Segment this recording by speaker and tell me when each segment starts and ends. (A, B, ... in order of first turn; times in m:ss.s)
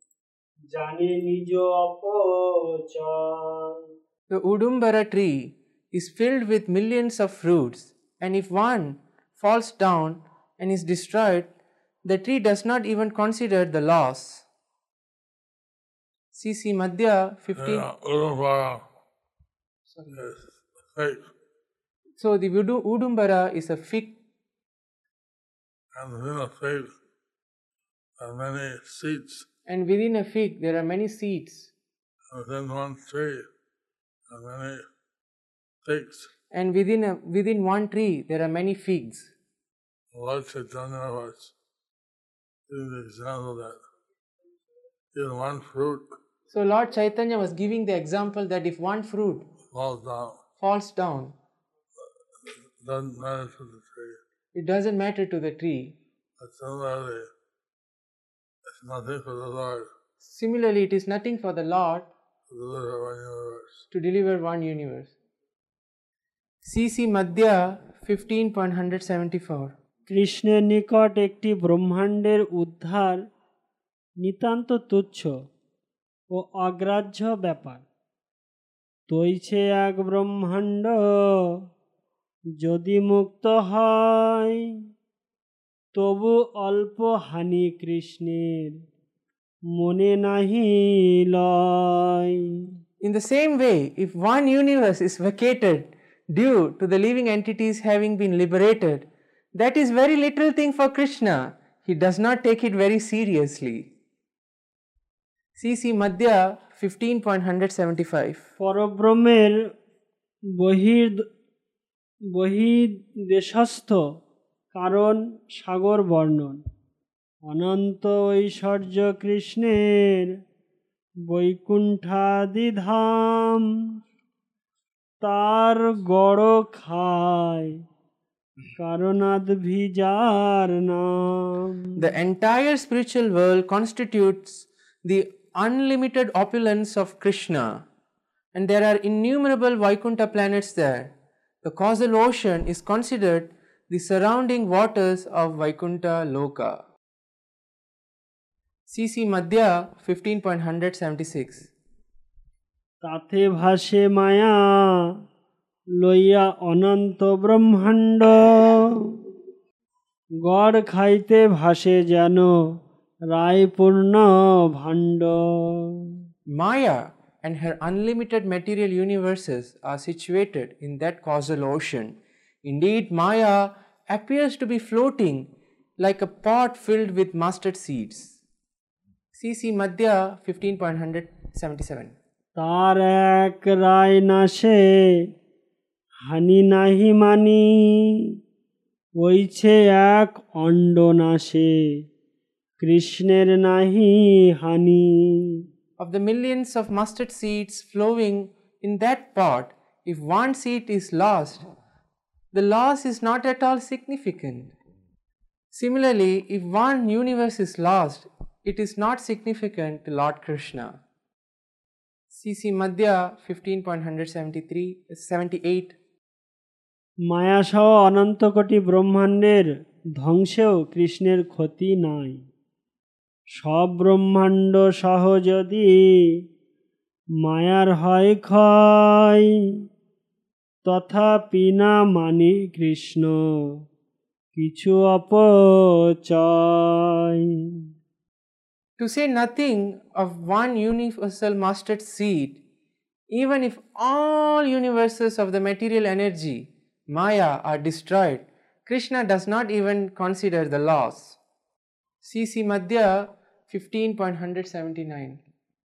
0:00.7-0:03.8 A
0:04.3-0:11.5 B
0:12.0-0:14.4 B
0:16.3-0:17.9 B
0:17.6-0:18.8 C
0:19.9-0:20.3 B
0:20.1-0:21.2 C
0:22.2-0:24.2 B
0:25.9-0:26.9 C
0:28.2-0:29.5 C
0:29.7-0:31.7 B
0:32.3-0:33.5 C
0:34.3-0:34.9 C
0:35.8-0:36.3 C
0:36.5-0:39.3 B
0:40.1-0:41.5 C
0:42.7-0:43.8 C
0:45.1-0:46.0 C
0:46.5-0:49.5 B
0:49.7-0:50.4 C
0:50.6-0:51.4 B
0:52.4-0:54.2 C
0:54.5-0:56.0 B
0:56.4-0:57.3 C
0:58.7-0:59.9 C
1:00.2-1:02.1 B
1:02.5-1:03.8 C
1:03.9-1:05.1 B
1:06.6-1:09.8 B
1:10.1-1:13.3 A
1:14.2-1:15.4 A
1:16.3-1:17.8 A
1:19.1-1:21.2 A
1:22.6-1:24.6 A
1:26.0-1:28.8 A
1:29.8-1:32.4 A
1:33.0-1:43.9 B
1:45.6-1:48.4 B
1:48.6-1:49.7 A
1:50.6-1:51.3 A
1:52.3-1:54.0 A
1:54.7-1:56.6 A
1:57.5-2:00.4 A
2:01.3-2:03.6 A
2:05.2-2:07.8 A
2:08.8-2:11.9 A
2:12.0-2:17.9 B
2:18.5-2:26.8 B
2:28.9-2:31.7 B
2:33.0-2:35.1 A
2:36.0-2:39.2 A
2:40.4-2:42.8 A
2:43.3-2:46.0 A
2:46.5-2:58.4 B
2:59.4-3:02.1 B
3:02.6-3:04.9 A
3:06.3-3:08.2 A
3:09.2-3:12.0 A
3:12.8-3:15.6 A
3:16.0-3:21.6 B
3:22.5-3:24.7 B
3:25.7-3:31.0 B
3:32.3-3:36.0 B
3:37.3-3:42.4 A
3:43.6-3:46.4 A
3:47.4-3:49.5 A
3:50.8-3:53.7 A
3:54.6-3:57.4 A
3:59.0-4:02.6 B
4:03.3-4:11.4 B
4:12.2-4:15.4 B